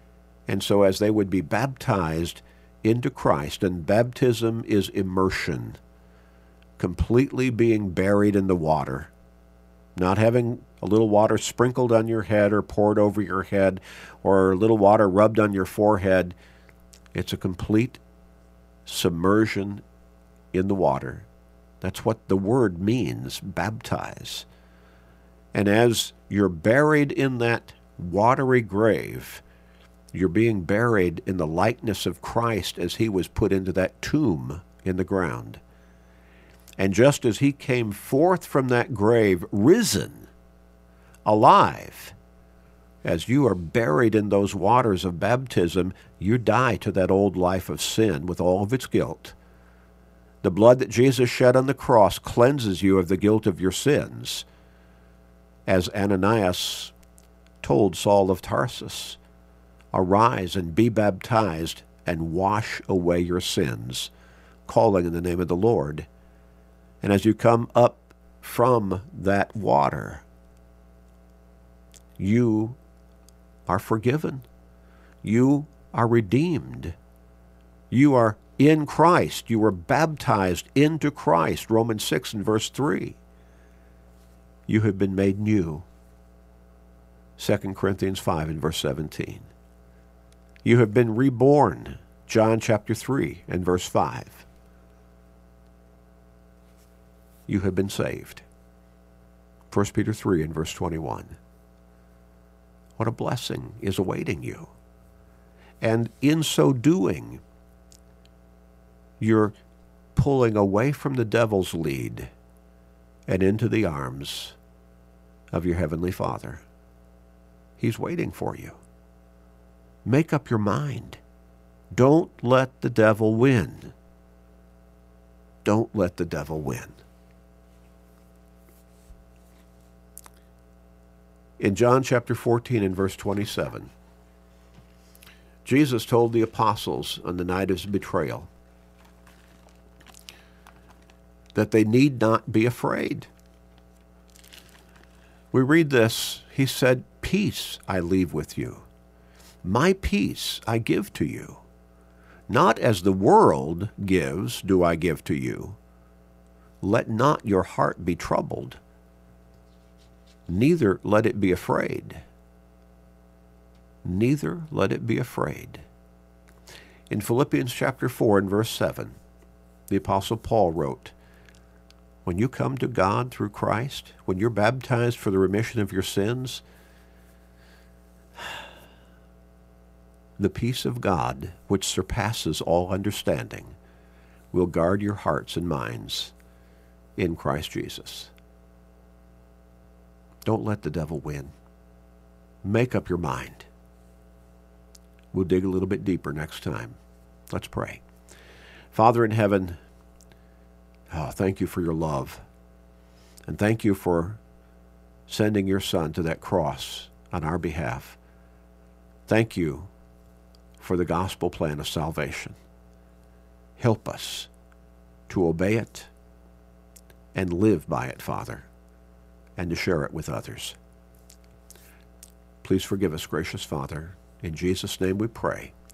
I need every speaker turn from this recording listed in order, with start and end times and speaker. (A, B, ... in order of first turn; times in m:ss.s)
0:00.5-0:05.8 A
0:06.8-0:09.1 A
0:10.0-0:16.4 A
0:17.1-0:18.0 A
0:18.9-0:19.8 A
0:20.5-0:21.3 A
0:21.8-0:24.5 A
0:25.5-0:29.4 A
0:30.1-0:35.6 A
0:36.8-0:40.3 A
0:41.2-0:42.2 A
0:43.0-0:49.4 A
0:50.4-0:54.5 A
0:55.7-0:56.9 A
0:57.6-0:59.2 A
0:59.9-1:04.1 A
1:04.7-1:06.1 A
1:07.0-1:10.2 A
1:12.2-1:12.8 A
1:13.7-1:14.5 A
1:15.2-1:17.0 A
1:17.9-1:23.2 A
1:24.7-1:25.9 A
1:27.4-1:29.5 A
1:30.6-1:34.4 A
1:37.5-1:38.4 A
1:39.7-1:41.4 A
1:43.0-1:44.7 A
1:45.8-1:47.4 A
1:49.2-1:49.6 A
1:50.2-1:52.3 A
1:53.3-1:54.6 A
1:55.5-1:56.6 A
1:57.8-1:58.8 A
2:00.0-2:01.2 A
2:01.9-2:03.9 A
2:05.6-2:07.0 A
2:11.6-2:13.9 A
2:15.6-2:18.5 A
2:21.6-2:23.3 A
2:25.5-2:28.8 A
2:29.6-2:31.6 A
2:32.5-2:35.8 A
2:36.8-2:38.8 A
2:40.5-2:42.2 A
2:44.0-2:45.8 A
2:47.1-2:49.2 A
2:49.9-2:51.1 A
2:52.2-2:56.6 A
3:00.4-3:03.8 A
3:04.5-3:06.3 A
3:07.2-3:08.3 A
3:10.4-3:11.5 A
3:12.6-3:13.7 A
3:15.3-3:17.0 A
3:17.5-3:18.0 A
3:18.9-3:19.8 A
3:21.1-3:22.4 A
3:23.5-3:24.4 A
3:25.3-3:28.2 A
3:29.3-3:29.9 A
3:30.8-3:32.6 A
3:33.8-3:34.5 A
3:35.3-3:36.1 A
3:37.3-3:38.7 A
3:39.6-3:40.8 A
3:42.6-3:45.7 A